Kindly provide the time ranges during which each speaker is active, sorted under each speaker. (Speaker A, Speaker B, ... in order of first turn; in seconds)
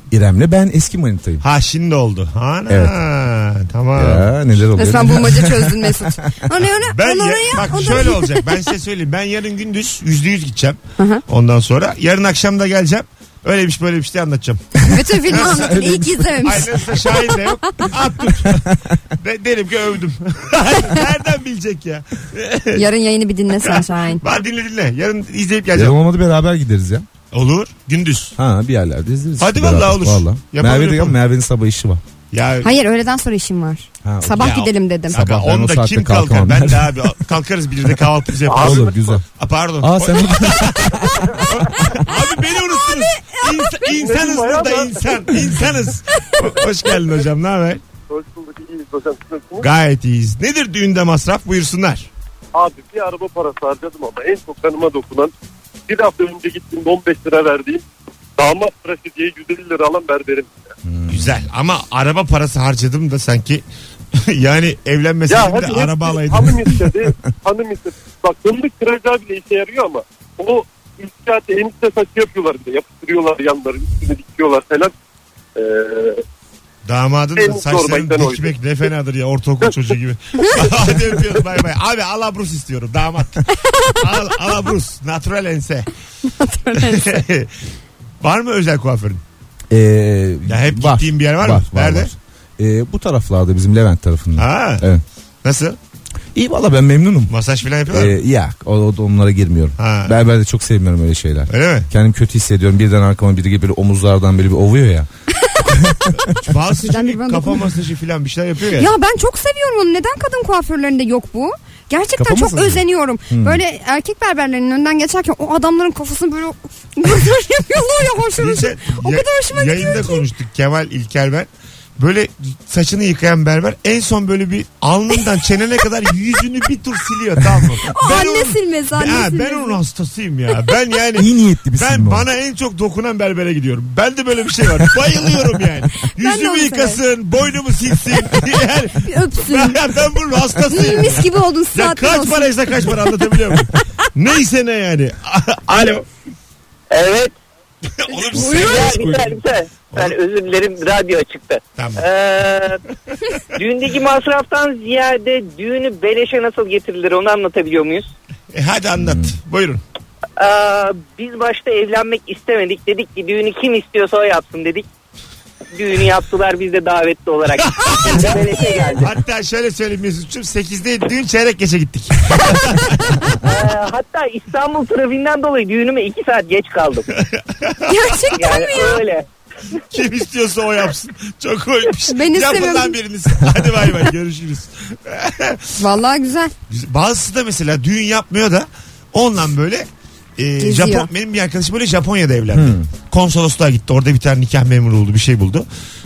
Speaker A: 0.1-1.4, 2.7-3.0, 4.0-6.1, 15.4-16.2, 25.7-27.1, 28.4-32.0, 34.0-37.2, 38.5-39.2, 39.8-41.2, 60.9-61.5, 89.7-95.0, 96.3-97.3, 97.9-105.1, 112.2-113.6, 131.2-132.2, 148.3-149.4, 159.0-159.3, 192.5-192.9
Speaker B: 1.4-4.3, 6.9-18.7, 19.2-22.8, 23.6-26.0, 27.3-28.4, 29.4-31.2, 32.3-32.7, 34.4-47.8, 49.6-52.1, 61.1-63.6, 64.2-66.7, 76.8-83.4, 84.0-85.9, 86.8-87.5, 88.2-89.2, 90.5-92.1, 94.4-94.9, 95.4-95.8, 97.3-98.2, 99.8-100.2, 101.5-101.9, 106.3-108.9, 118.4-146.1, 148.1-149.1, 158.5-159.8, 167.7-173.1, 177.6-177.9, 179.9-185.7, 186.7-195.7
Speaker C: 4.8-8.4, 11.0-11.2, 14.9-17.9, 22.8-24.2, 32.6-35.2, 41.8-43.9, 83.7-84.0, 86.3-87.2, 105.4-105.8, 106.9-107.7, 108.8-120.2, 127.9-129.8, 136.2-137.0, 139.0-139.8, 140.7-142.9, 148.1-148.9, 177.9-179.0, 182.1-183.0, 185.8-186.5, 190.6-191.1
Speaker D: 38.5-38.8, 43.9-45.4, 48.1-49.7, 52.5-55.3, 55.9-57.8, 58.4-60.7, 65.3-74.9, 75.6-76.2, 77.4-78.6
Speaker E: 146.9-147.3, 148.5-152.8, 153.6-158.1, 160.4-164.9, 165.7-169.1, 173.4-177.1, 178.3-179.3